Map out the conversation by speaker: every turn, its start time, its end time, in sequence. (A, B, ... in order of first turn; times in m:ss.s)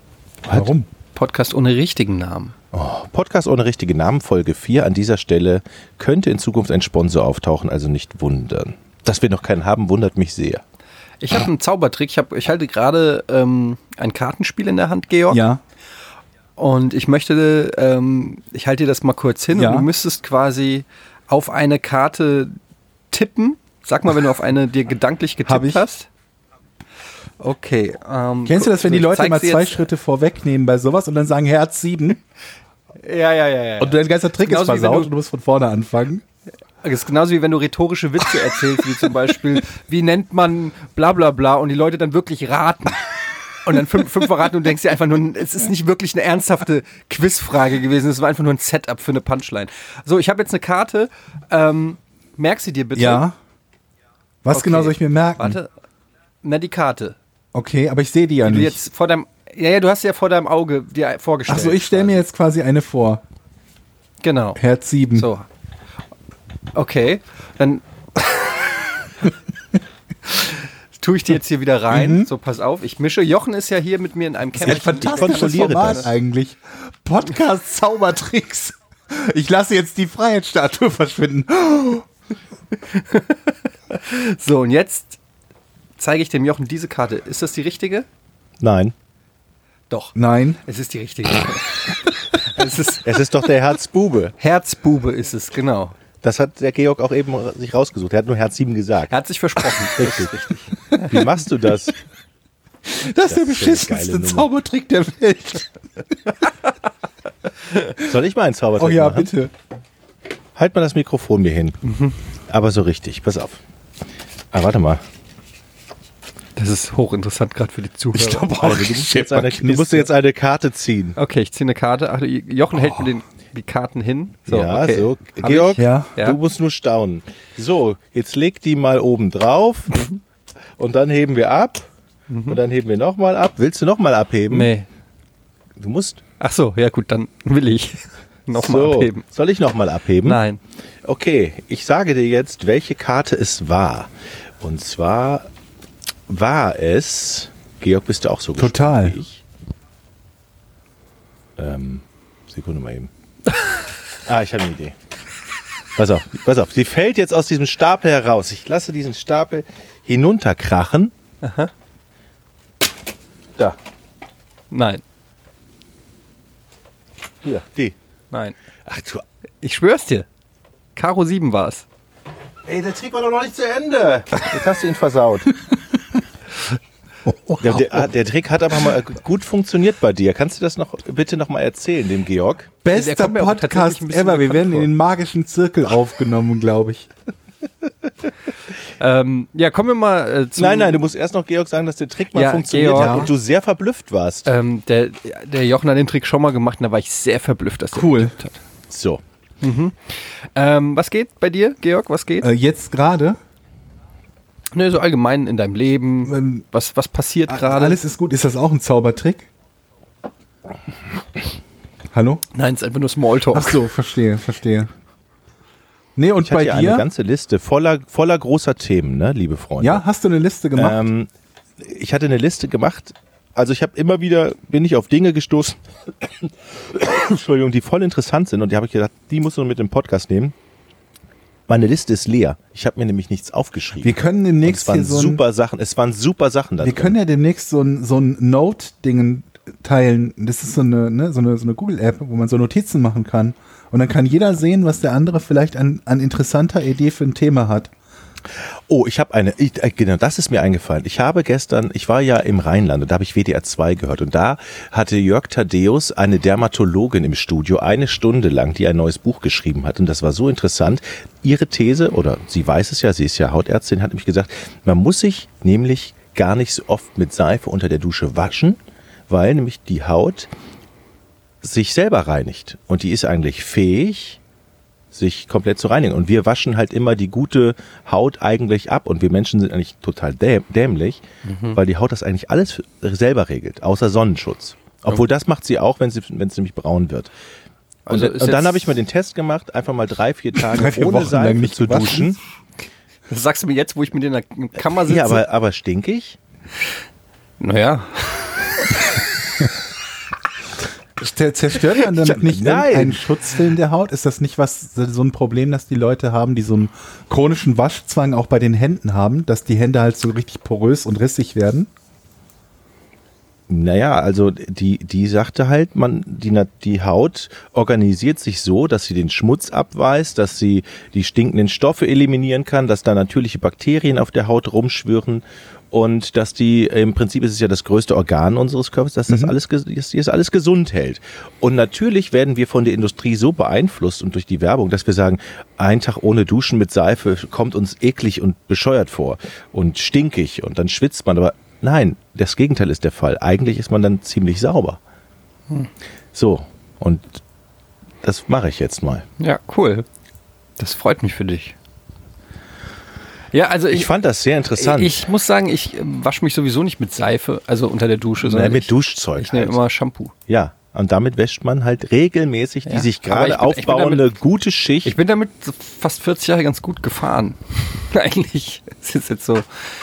0:00.5-0:00.7 A
0:00.5-0:00.9 B
0:01.1-0:02.5 C
0:02.7-0:10.6 A
0:11.2-0:15.4 C
0:15.3-0:15.6 B
0:16.6-0:22.6 C
0:19.5-0:19.9 B
0:23.1-0:26.1 C
0:25.4-0:25.8 B
0:27.4-0:29.8 C
0:28.5-0:32.2 B
0:33.0-0:35.1 C
0:33.8-0:36.2 B
0:36.8-0:43.1 C
0:43.6-0:53.2 C
0:52.9-0:53.4 B
0:54.4-0:55.6 B
0:54.5-0:55.7 C
0:56.4-0:57.2 C
0:57.5-0:58.8 B
0:58.4-1:02.2 C
1:01.5-1:03.2 B
1:04.2-1:04.6 C
1:04.6-1:05.3 B
1:05.1-1:05.5 C
1:06.7-1:09.1 C
1:10.3-1:16.1 C
1:11.9-1:12.3 B
1:14.6-1:16.1 A
1:14.6-1:22.0 B
1:22.8-1:25.2 C
1:26.0-1:28.0 C
1:28.6-1:28.9 A
1:29.9-1:33.1 C
1:30.1-1:30.6 B
1:33.0-1:34.3 A
1:34.4-1:36.0 C
1:36.2-1:39.1 A
1:39.1-1:41.1 C
1:39.9-1:42.0 A
1:42.8-1:45.7 B
1:43.2-1:44.5 A
1:47.9-1:49.3 A
1:48.8-1:49.5 B
1:50.6-1:51.8 A
1:51.8-1:52.1 C
1:52.5-1:53.6 A
1:54.5-1:55.0 A
1:56.6-1:58.5 C
1:58.1-2:00.1 B
1:58.5-2:01.2 A
2:01.2-2:06.4 C
2:04.5-2:10.1 A
2:05.8-2:06.1 B
2:10.8-2:11.8 A
2:12.3-2:12.6 C
2:12.5-2:14.7 A
2:14.5-2:14.9 C
2:15.8-2:16.2 A
2:16.4-2:19.2 C
2:18.5-2:20.4 A
2:20.2-2:20.6 C
2:21.0-2:25.5 A
2:26.3-2:29.4 A
2:28.6-2:29.2 B
2:31.6-2:33.1 A
2:34.2-2:34.9 A
2:36.0-2:41.1 A
2:41.4-2:41.7 C
2:44.7-2:45.0 C
2:47.4-2:47.9 A
2:48.8-2:49.2 A
2:49.6-2:50.3 C
2:51.0-2:51.8 C
2:52.7-2:55.6 A
2:57.3-2:58.0 B
2:57.6-3:02.7 A
3:02.8-3:07.1 B
3:02.9-3:04.9 C
3:09.0-3:11.0 C
3:10.6-3:14.5 A
3:12.3-3:13.3 C
3:13.0-3:13.3 B
3:14.4-3:18.6 C
3:17.9-3:18.3 B
3:18.9-3:19.2 A
3:19.6-3:20.0 C
3:20.6-3:22.5 C
3:22.4-3:23.4 B
3:24.7-3:28.0 C
3:26.2-3:26.6 B
3:27.5-3:29.5 B
3:32.1-3:32.4 B
3:32.5-3:33.8 C
3:33.5-3:34.9 B
3:36.2-3:37.1 B
3:36.4-3:40.0 A
3:39.8-3:41.0 B
3:40.7-3:41.3 A
3:41.8-3:50.5 A
3:51.7-3:57.1 A
3:54.0-3:55.4 B
3:56.8-4:07.9 B
4:08.9-4:28.8 A
4:29.3-4:30.5 A
4:31.6-4:34.4 A
4:35.1-4:47.3 A
4:41.4-4:41.8 C
4:48.0-4:48.9 C
4:48.1-4:52.4 A
4:50.7-4:52.4 B
4:53.3-4:55.4 C
4:55.0-4:56.4 A
4:57.6-4:59.0 C
5:01.2-5:11.9 B
5:02.0-5:02.4 C
5:02.4-5:03.2 A
5:13.7-5:45.0 A
5:29.3-5:29.5 B
5:46.3-5:47.4 A
5:48.2-5:49.2 A
5:49.4-5:50.0 C
5:50.8-5:51.7 C
5:53.5-5:54.1 C
5:53.9-5:55.2 A
5:54.8-6:00.3 C
5:58.4-5:59.8 A
6:00.5-6:05.1 A
6:02.8-6:04.3 C
6:05.0-6:09.6 C